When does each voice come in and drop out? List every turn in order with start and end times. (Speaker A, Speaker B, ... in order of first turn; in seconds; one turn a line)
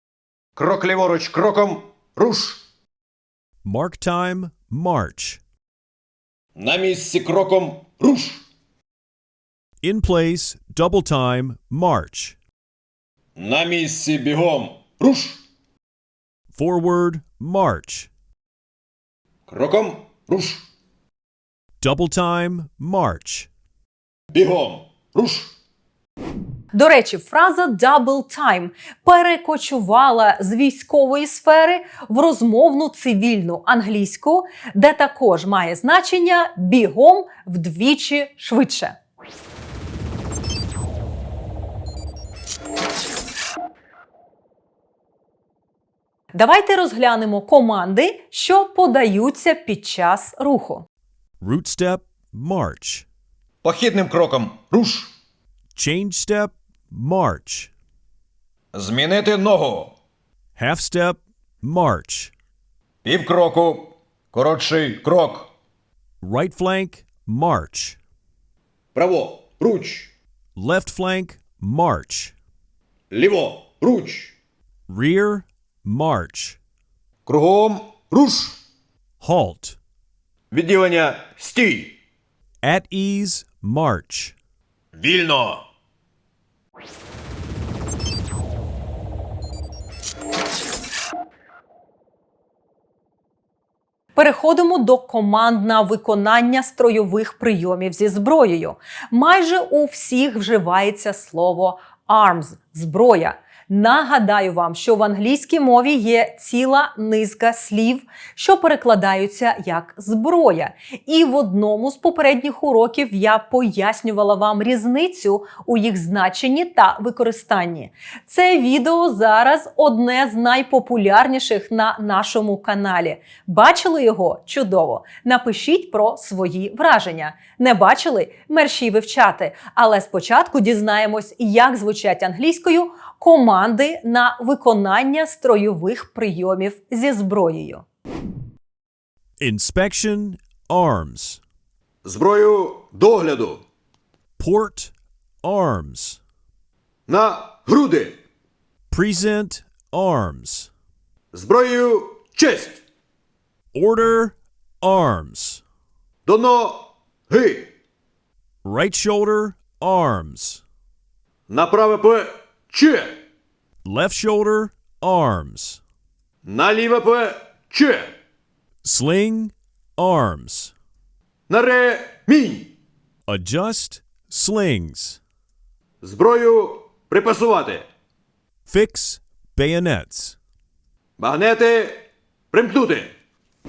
Speaker A: 0.6-2.6
Speaker B: 3.6-5.4
Speaker A: 6.5-8.4
Speaker B: 9.8-12.4
Speaker A: 13.3-15.4
Speaker B: 16.5-18.1
Speaker A: 19.5-20.6
Speaker B: 21.8-23.5
Speaker A: 24.3-25.5
Speaker C: 26.7-38.9
Speaker C: 46.3-50.9
Speaker B: 51.4-53.0
Speaker A: 53.6-55.1
Speaker B: 55.7-57.7
Speaker A: 58.7-59.9
Speaker B: 60.5-62.3
Speaker A: 63.0-65.5
Speaker B: 66.2-68.0
Speaker A: 68.9-70.1
Speaker B: 70.5-72.3
Speaker A: 73.1-74.3
Speaker B: 74.9-76.6
Speaker A: 77.2-78.6
Speaker B: 79.2-79.8
Speaker A: 80.5-81.9
Speaker B: 82.6-84.3
Speaker A: 84.9-85.6
Speaker C: 94.1-137.8
Speaker B: 139.4-141.4
Speaker A: 142.0-143.6
Speaker B: 144.4-144.9
Speaker B: 145.4-146.2
Speaker A: 147.1-148.2
Speaker B: 148.9-150.7
Speaker A: 151.3-152.8
Speaker B: 153.7-155.6
Speaker A: 156.2-157.7
Speaker B: 158.6-160.6
Speaker A: 161.5-163.2
Speaker B: 163.8-165.8
Speaker A: 166.4-168.1
Speaker B: 168.8-170.7
Speaker A: 171.5-172.7
Speaker B: 173.3-175.2
Speaker A: 176.0-177.8
Speaker B: 178.7-180.4
Speaker A: 181.2-183.1